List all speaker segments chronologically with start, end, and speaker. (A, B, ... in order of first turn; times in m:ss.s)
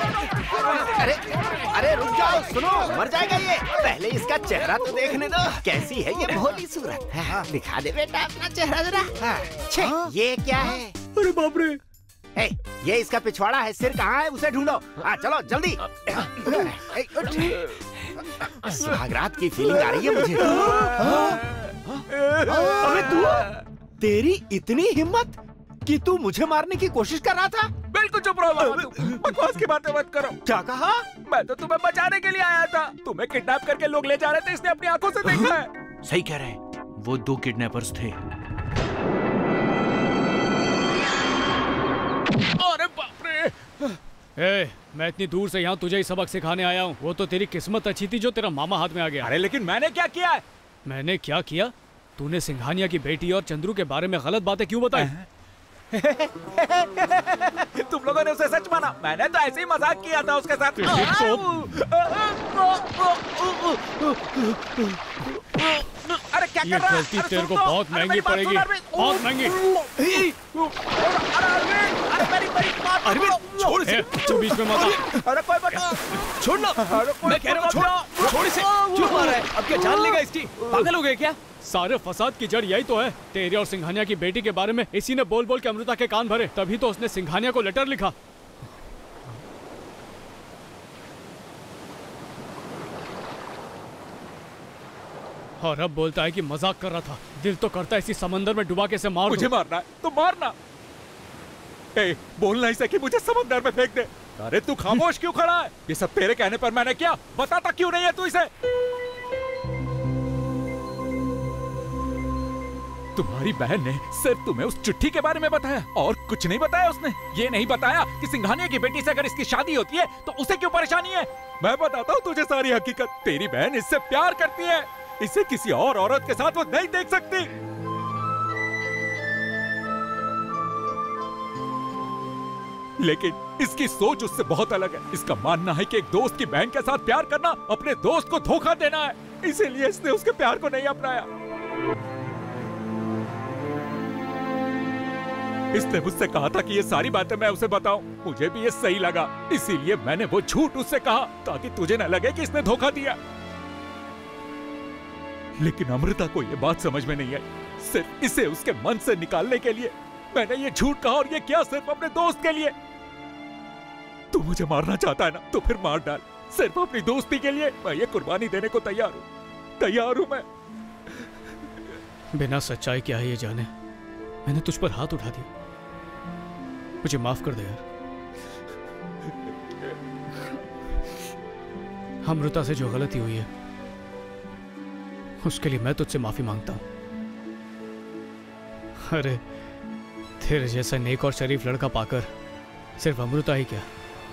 0:00.6-0:11.0 A
0:12.4-0:17.6 A
0:18.6-0:21.4 A
0:20.5-0:21.1 B
0:22.0-0:27.7 A
0:22.2-0:23.2 B
0:27.9-0:30.4 B
0:30.5-0:31.1 A
0:31.2-0:35.7 B
0:36.0-0:38.2 C
0:42.6-0:43.6 B
0:44.4-0:49.3 D
0:49.2-0:50.4 B
0:50.9-0:55.1 D
0:55.0-0:55.3 B
0:55.9-1:04.8 B
1:00.8-1:01.4 D
1:05.6-1:13.9 B
1:06.6-1:09.6 D
1:13.0-1:14.1 E
1:13.8-1:15.1 D
1:14.7-1:15.2 E
1:15.2-1:16.0 B
1:16.3-1:21.4 E
1:16.8-1:18.4 B
1:21.6-1:28.2 D
1:35.6-1:39.5 D
1:39.3-1:40.6 B
1:42.0-1:48.5 B
1:53.2-2:07.5 B
2:13.0-2:21.3 B
2:25.7-2:33.2 B
2:35.6-2:42.7 B
2:44.3-2:49.3 B
2:49.8-2:50.5 B
2:52.3-2:53.7 D
2:54.5-2:55.5 D
2:57.0-2:57.8 D
3:02.2-3:03.5 D
3:05.4-3:06.8 D
3:09.0-3:09.4 D
3:10.4-3:12.3 D
3:13.0-3:13.9 D